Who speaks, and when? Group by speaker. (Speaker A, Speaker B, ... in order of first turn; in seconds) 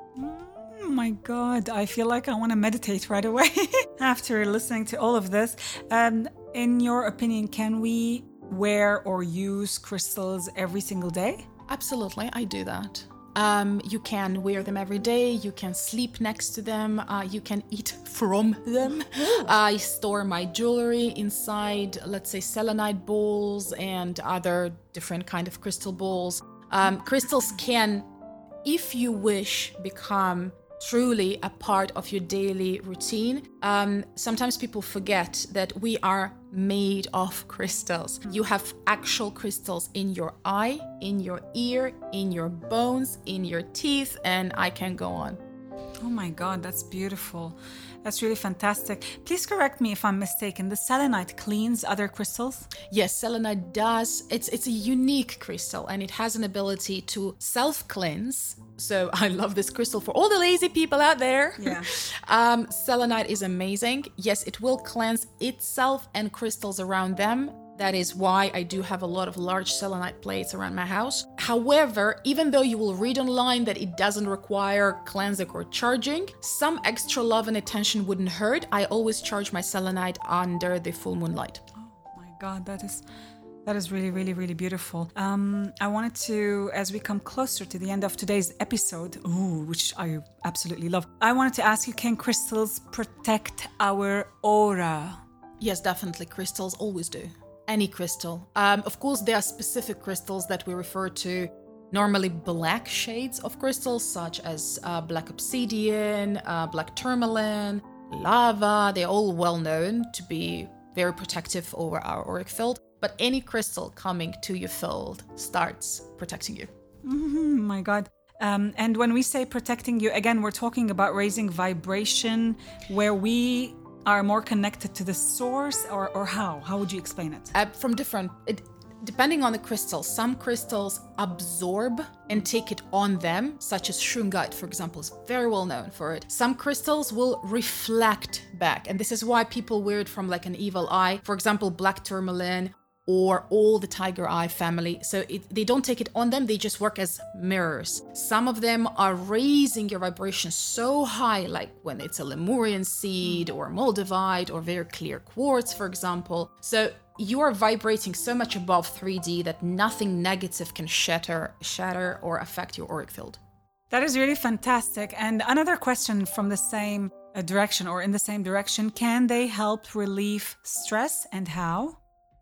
Speaker A: 0.2-11.4, 19.2-19.5, 46.0-52.7, 61.6-61.9, 81.8-83.0, 83.6-95.2, 117.0-127.5, 163.9-172.0
Speaker B: 11.7-28.1, 28.6-45.4, 52.9-81.6, 95.6-116.7, 127.5-163.4